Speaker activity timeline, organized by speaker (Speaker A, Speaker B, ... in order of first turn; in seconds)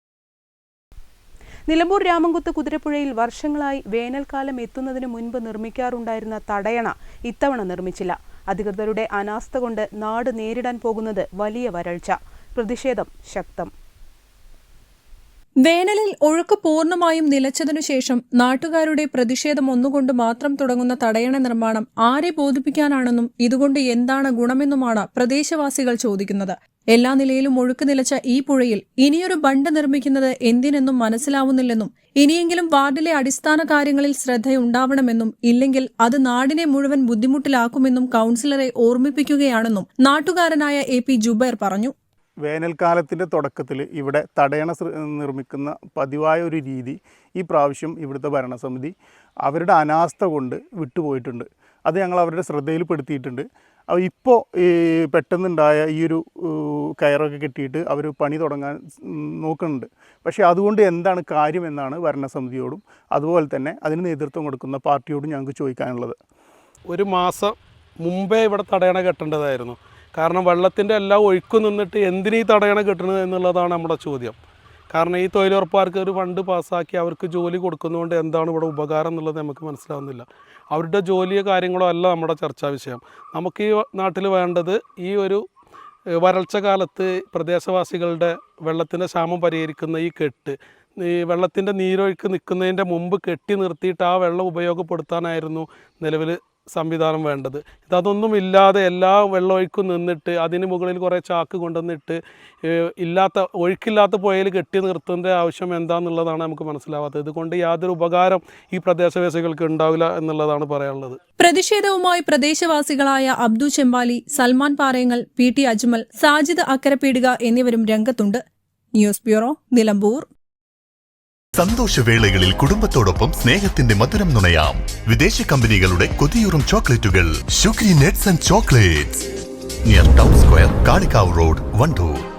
Speaker A: 1.7-13.7
Speaker B: 15.6-41.9, 111.4-118.4, 118.9-120.3
Speaker C: 42.4-48.9, 49.4-66.2
Speaker D: 66.9-74.3, 74.9-85.4, 86.2-111.2
Speaker E: 121.5-129.2, 129.8-132.2